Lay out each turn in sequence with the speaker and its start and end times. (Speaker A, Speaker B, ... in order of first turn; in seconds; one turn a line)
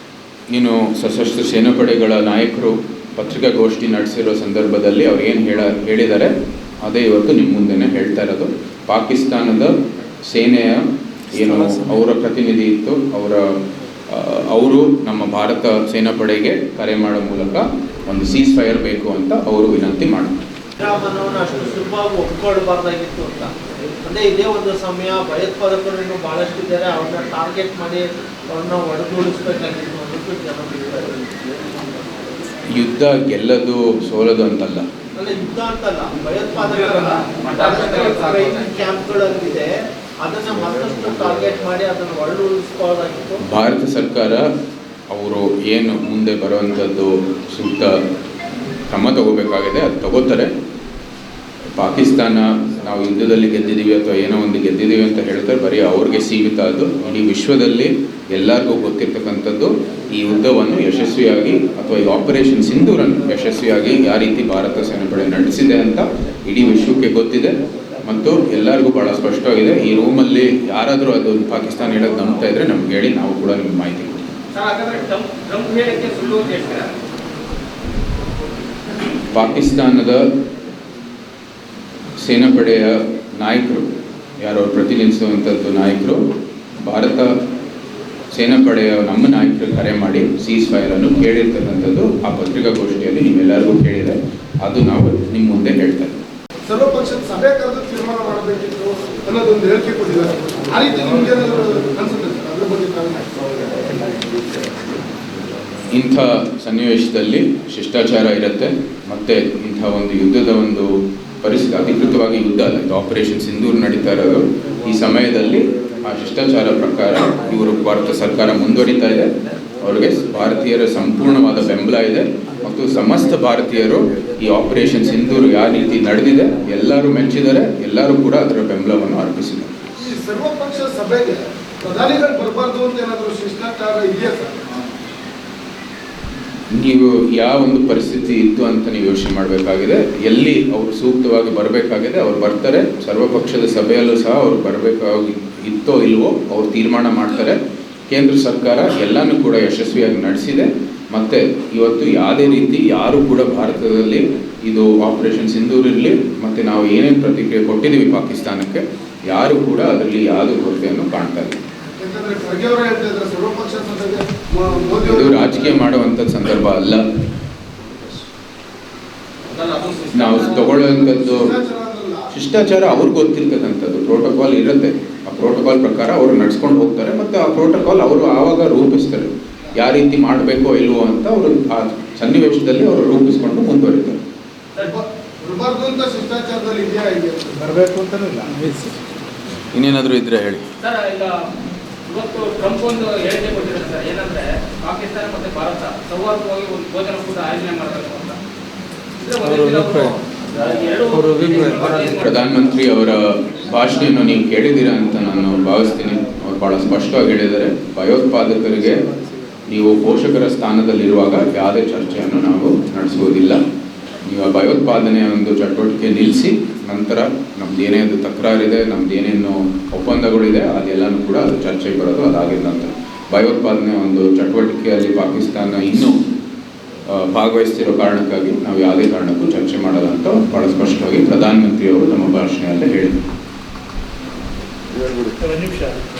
Speaker A: 0.5-9.7
Speaker A: 10.3-13.5
Speaker A: 14.1-20.4
Speaker B: 20.8-23.5
Speaker B: 24.0-31.2
Speaker A: 32.7-34.9
Speaker B: 35.1-43.4
Speaker C: 36.7-38.6
Speaker A: 43.4-44.5
Speaker A: 45.1-48.0
Speaker A: 48.9-50.5
Speaker A: 51.8-74.3
Speaker C: 74.5-76.9
Speaker A: 79.3-80.2
Speaker A: 82.2-86.2
Speaker A: 86.8-87.3
Speaker A: 88.3-96.2
Speaker D: 96.7-103.3
Speaker A: 105.9-129.8
Speaker D: 130.0-134.7
Speaker A: 136.7-147.6
Speaker A: 148.1-161.6
Speaker D: 162.0-165.7
Speaker A: 165.0-167.1
Speaker C: 169.6-170.2
Speaker A: 170.1-171.5
Speaker D: 170.7-172.3
Speaker A: 172.3-184.2
Speaker D: 184.8-188.1
Speaker E: 188.2-189.0
Speaker A: 189.7-190.6
Speaker C: 190.8-191.5
Speaker C: 192.1-198.4
Speaker C: 199.2-202.4
Speaker E: 199.5-200.1
Speaker E: 201.2-201.9
Speaker A: 202.1-209.1
Speaker A: 209.7-213.6
Speaker A: 214.2-226.2
Speaker A: 227.1-233.2